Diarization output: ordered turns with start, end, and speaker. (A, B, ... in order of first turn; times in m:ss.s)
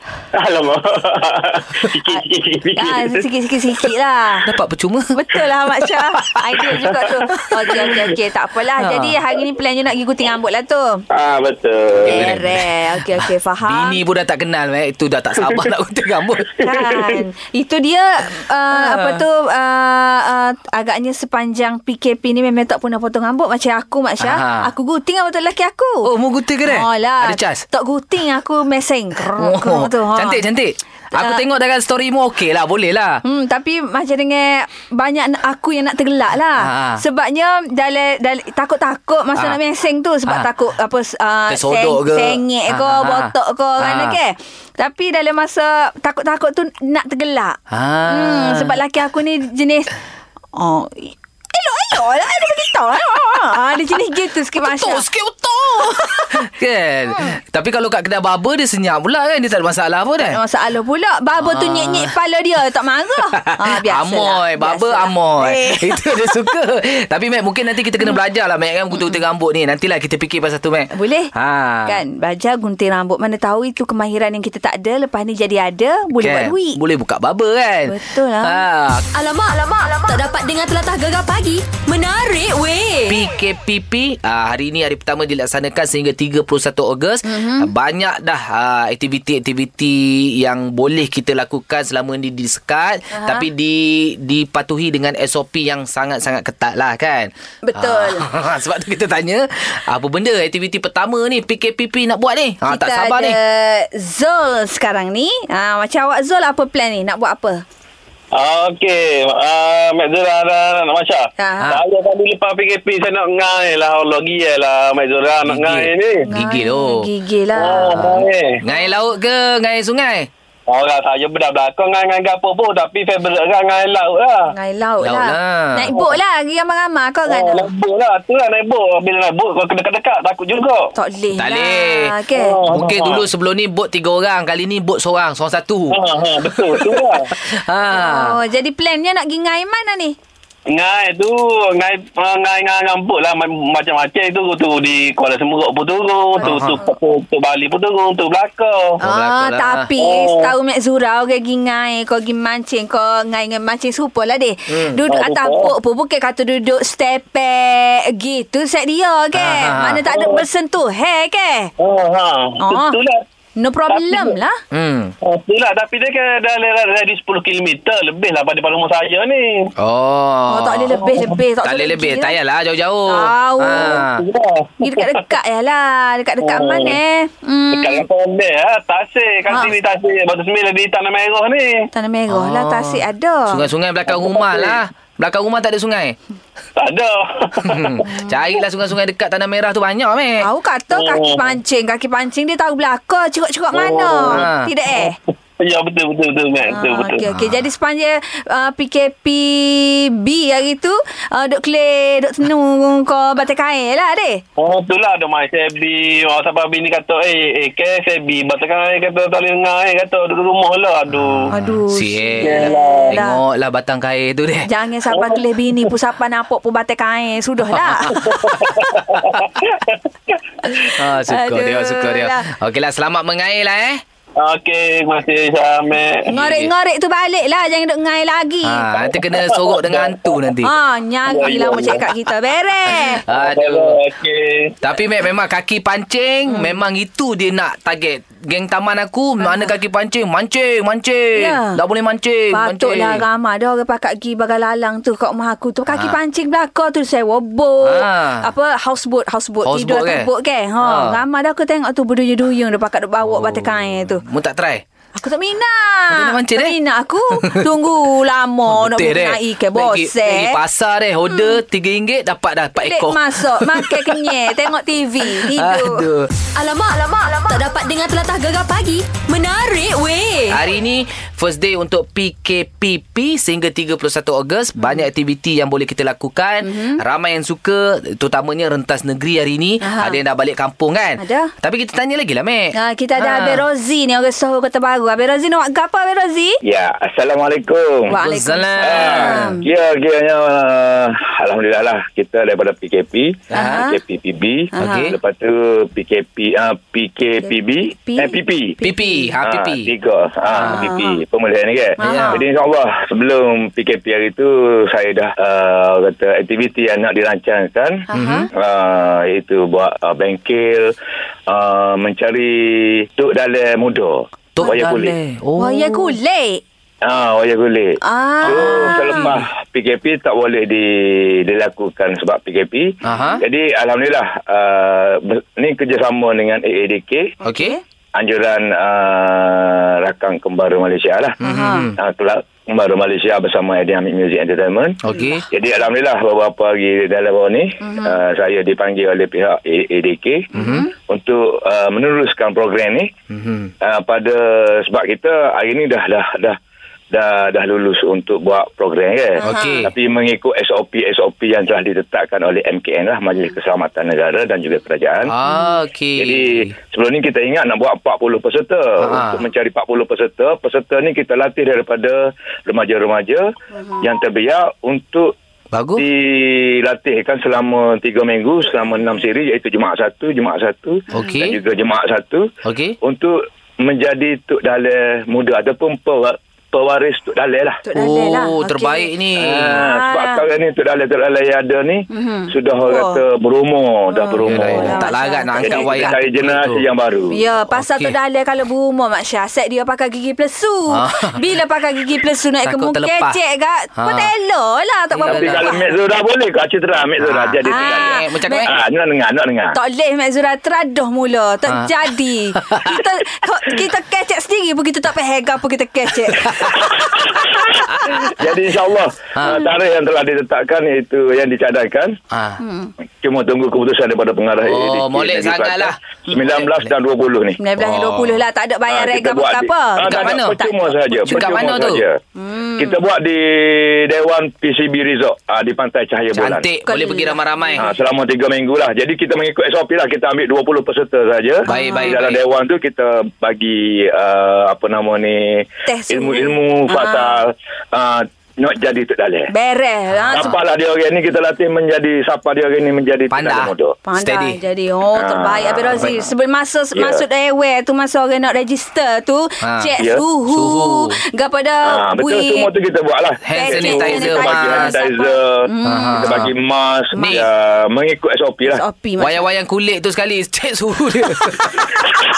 0:00.4-0:03.2 A
0:02.8-0:04.5 B
0:04.4-0:05.2 C
0:05.1-0:11.0 B
0:05.8-0:06.3 C
0:08.8-0:09.2 C
0:11.1-0:12.3 A
0:12.0-0:12.6 C
0:12.0-0:14.0 B
0:13.6-0:16.6 C
0:16.6-0:26.1 B
0:16.9-0:17.1 A
0:18.7-0:19.2 C
0:24.2-0:24.7 C
0:26.0-0:27.6 C
0:26.7-0:30.4 B
0:29.2-0:33.2 C
0:31.1-0:31.4 B
0:33.2-0:49.9 B
0:36.6-0:37.0 C
0:41.5-0:44.2 C
0:47.7-0:48.8 C
0:50.5-0:55.0 B
0:54.6-1:00.4 C
1:00.3-1:06.1 B
1:01.4-1:02.1 C
1:03.3-1:12.0 C
1:10.9-1:11.3 B
1:11.8-1:16.8 B
1:16.2-1:19.0 C
1:17.9-1:18.6 B
1:19.1-1:23.2 D
1:23.1-1:43.4 C
1:27.2-1:27.7 B
1:33.1-1:33.5 B
1:37.6-1:38.3 B
1:42.7-1:47.6 B
1:48.3-1:56.2 E
1:51.4-1:51.8 B
1:55.4-1:57.1 C
1:56.3-1:58.1 B
1:57.6-1:58.6 E
1:58.0-2:00.3 C
1:58.6-1:58.9 B
2:00.7-2:04.5 E
2:04.5-2:07.7 B
2:05.0-2:05.9 C
2:07.3-2:10.9 E
2:10.9-2:12.6 B
2:11.4-2:12.2 C
2:12.3-2:13.2 E
2:12.7-2:18.4 C
2:15.9-2:17.3 E
2:17.9-2:20.2 B
2:20.7-2:29.0 E
2:26.4-2:26.9 B
2:26.4-2:26.8 C
2:29.0-2:41.7 B
2:29.0-2:29.9 C
2:30.0-2:30.5 E
2:35.1-2:35.7 E
2:39.3-2:40.0 C
2:40.1-2:40.4 E
2:41.8-2:43.2 E
2:42.6-2:43.0 B
2:43.6-2:44.6 B
2:43.9-2:44.4 E
2:44.7-2:45.1 C
2:45.2-2:49.7 E
2:49.8-2:50.9 C
2:50.5-2:52.4 B
2:51.6-2:54.2 C
2:53.1-2:54.0 B
2:54.0-2:55.2 E
2:54.8-2:58.0 B
2:56.4-2:57.0 E
2:57.7-3:01.9 E
3:01.9-3:03.6 B
3:02.3-3:06.2 C
3:04.1-3:04.8 E
3:06.8-3:08.0 E
3:07.6-3:10.4 C
3:08.0-3:08.4 B
3:10.4-3:15.2 B
3:10.9-3:11.5 E
3:13.7-3:17.2 E
3:14.3-3:14.7 C
3:16.7-3:24.4 B
3:17.3-3:17.6 C
3:24.6-3:31.5 E
3:31.1-3:34.7 C
3:31.5-3:33.4 B
3:32.4-3:33.2 E
3:34.6-3:38.2 B
3:35.1-3:35.4 E
3:37.7-3:38.6 C
3:38.2-3:40.9 E
3:40.7-3:42.4 B
3:41.0-3:44.0 C
3:44.4-3:46.4 E
3:46.3-3:48.9 B
3:46.4-3:46.6 C
3:48.6-3:50.7 C
3:49.2-3:50.4 E
3:50.6-3:53.2 B
3:51.2-3:52.1 E
3:53.2-3:54.0 C
3:53.3-3:54.8 E
3:54.8-4:03.2 C
3:56.5-3:56.7 B
3:59.4-3:59.7 B
4:01.4-4:01.8 B
4:02.5-4:14.2 B
4:07.8-4:08.5 C
4:09.6-4:10.3 C
4:10.8-4:11.2 C
4:13.2-4:14.8 C
4:15.2-4:20.6 B
4:16.1-4:16.8 C
4:18.7-4:24.3 C
4:21.3-4:21.6 B
4:22.8-4:26.0 B
4:25.3-4:26.3 C
4:26.5-4:30.6 D
4:30.5-4:43.6 C
4:36.6-4:37.0 B
4:39.8-4:40.2 B
4:41.2-4:41.5 B
4:42.7-4:46.6 B
4:46.6-4:48.1 F
4:48.1-4:49.6 B
4:48.1-4:49.6 C
4:48.8-4:58.7 F
4:53.5-4:53.8 C
4:53.5-4:54.0 B
4:54.7-4:55.1 B
4:54.8-4:55.2 C
4:57.4-4:59.4 B
4:58.8-4:59.9 C
4:59.4-5:10.9 F
5:00.5-5:01.2 B
5:00.5-5:00.8 C
5:02.0-5:02.4 B
5:02.0-5:02.4 C
5:08.1-5:08.5 B
5:08.1-5:08.5 C
5:11.5-5:15.1 F
5:14.5-5:16.1 C
5:15.6-5:16.6 B
5:17.0-5:27.3 F
5:18.0-5:19.3 B
5:18.4-5:19.5 C
5:23.0-5:23.4 B
5:23.0-5:23.4 C
5:27.4-5:27.8 B
5:27.4-5:27.8 C
5:28.2-5:31.4 F
5:31.4-5:32.0 C
5:31.4-5:31.9 B
5:32.0-5:35.0 F
5:35.0-5:35.4 C
5:35.5-5:40.5 F
5:37.8-5:38.2 B
5:40.5-5:40.9 B
5:40.5-5:40.8 C
5:41.1-5:43.1 F
5:43.3-5:43.7 C
5:43.8-5:46.6 F
5:47.1-5:55.3 F
5:49.4-5:49.9 B
5:49.4-5:49.9 C
5:55.3-5:56.7 C
5:55.4-5:55.7 B
5:56.2-6:03.5 F
5:59.0-5:59.4 C
6:03.8-6:04.0 B
6:04.0-6:05.3 F
6:05.7-6:06.0 C
6:06.0-6:12.5 F
6:11.1-6:11.4 B
6:11.1-6:11.6 C
6:12.6-6:13.0 C
6:13.0-6:17.8 F
6:17.8-6:19.1 B
6:17.9-6:19.8 C
6:19.4-6:27.3 F
6:19.7-6:20.4 B
6:22.1-6:23.2 B
6:24.1-6:26.1 B
6:24.4-6:26.8 C
6:27.3-6:35.9 B
6:27.7-6:28.1 C
6:30.9-6:31.4 C
6:32.6-6:33.4 C
6:34.0-6:34.3 C
6:35.1-6:35.7 C
6:35.3-6:39.7 F
6:37.2-6:38.8 C
6:37.6-6:38.7 B
6:39.7-6:48.2 B
6:42.6-6:43.0 C
6:46.5-6:46.9 C
6:47.3-6:47.7 F
6:48.2-6:52.2 F
6:49.4-6:49.7 C
6:52.3-6:52.6 C
6:52.6-6:52.9 B
6:53.2-6:57.6 F
6:54.7-6:56.9 C
6:57.6-7:01.7 B
6:57.8-6:58.4 C
6:58.9-7:02.2 F
7:00.1-7:00.6 C
7:01.2-7:02.0 C
7:02.4-7:03.0 B
7:02.8-7:06.6 F
7:06.4-7:07.9 C
7:06.8-7:07.9 B
7:07.8-7:19.5 F
7:11.6-7:12.2 B
7:11.7-7:12.4 C
7:15.9-7:17.4 B
7:19.5-7:20.5 B
7:20.1-7:20.6 C
7:20.3-7:24.0 F
7:23.3-7:24.6 C
7:24.0-7:32.7 B
7:25.2-7:26.1 F
7:25.9-7:26.2 C
7:27.0-7:27.2 F
7:29.6-7:30.0 C
7:30.5-7:31.2 C
7:31.9-7:38.8 F
7:33.4-7:34.9 C
7:33.5-7:36.5 B
7:35.8-7:36.5 C
7:37.1-7:37.5 B
7:37.2-7:37.5 C
7:38.6-7:39.4 B
7:39.2-7:42.2 C